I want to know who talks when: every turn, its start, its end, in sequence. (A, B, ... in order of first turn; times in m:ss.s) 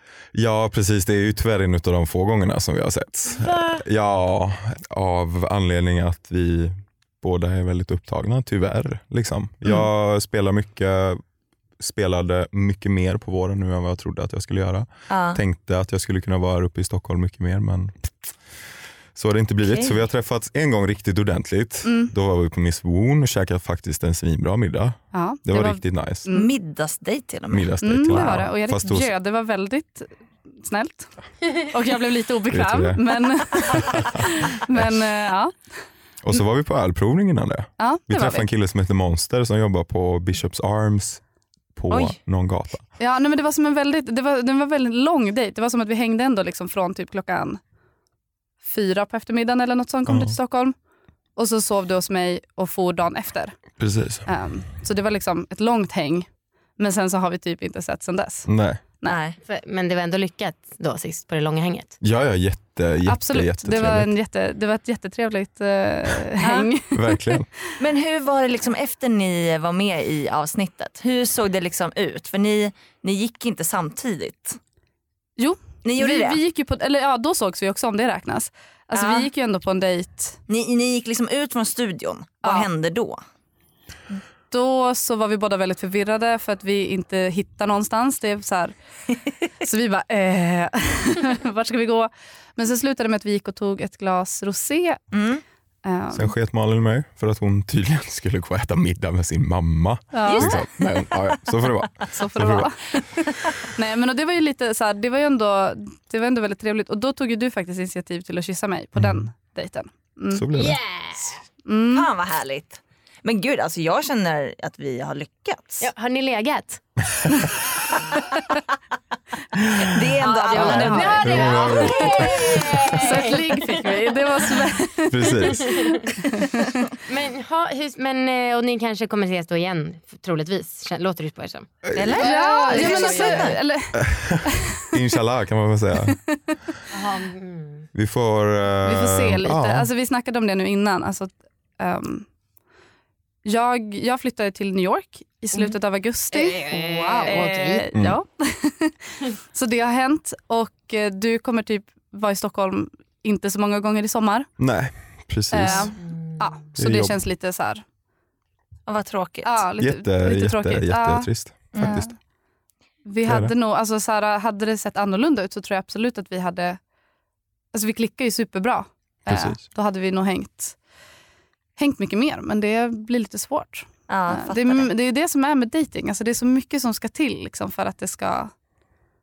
0:00.3-0:11.2 A
0:11.8-0:17.9 A
0:15.1-0:15.4 B
0:19.1-0:26.2 A
0:19.6-0:20.0 B
0:21.8-0:22.1 C
0:25.1-0:26.5 C
0:26.3-0:27.7 B
0:27.5-0:29.1 A
0:27.8-0:35.5 C
0:32.5-0:33.1 A
0:33.8-0:34.0 A
0:36.2-0:41.2 A
0:37.8-0:38.5 C
0:41.7-0:42.9 A
0:41.9-0:42.2 B
0:43.0-0:47.6 C
0:48.6-0:50.8 C
0:50.1-0:50.4 A
0:51.4-0:53.6 C
0:53.8-0:54.3 A
0:54.2-0:58.5 C
0:58.5-0:58.8 A
0:59.0-0:59.4 B
0:59.4-1:02.0 D
1:02.0-1:04.1 A
1:03.1-1:07.4 C
1:06.4-1:06.7 B
1:06.9-1:07.5 A
1:07.8-1:14.6 B
1:15.4-1:20.4 C
1:15.8-1:16.4 B
1:18.9-1:19.3 B
1:20.5-1:23.2 B
1:24.5-1:28.7 C
1:29.6-1:35.0 C
1:35.1-1:35.4 B
1:35.8-1:36.3 C
1:36.1-1:42.7 A
1:40.1-1:40.4 C
1:42.1-1:42.8 C
1:43.8-1:50.7 C
1:50.3-1:50.7 A
1:50.6-1:51.2 D
1:51.6-1:52.1 C
1:51.9-1:55.9 B
1:55.8-1:56.8 D
1:59.8-2:01.5 B
2:00.2-2:03.4 D
2:00.6-2:02.4 A
2:02.1-2:02.8 B
2:02.9-2:06.7 C
2:05.1-2:05.6 A
2:07.1-2:13.6 D
2:12.2-2:15.0 C
2:14.0-2:14.4 A
2:14.9-2:16.2 A
2:16.9-2:17.9 D
2:17.9-2:19.9 A
2:18.8-2:22.3 C
2:23.4-2:29.0 C
2:27.2-2:27.8 D
2:29.5-2:34.5 C
2:34.6-2:35.9 A
2:35.5-2:37.8 C
2:36.8-2:37.2 A
2:38.9-2:39.6 B
2:39.4-2:42.2 C
2:39.8-2:42.1 A
2:41.7-2:42.0 B
2:43.0-2:46.8 C
2:43.2-2:43.5 A
2:47.7-2:50.8 C
2:49.3-2:49.6 A
2:51.8-2:58.5 C
2:54.1-2:54.9 B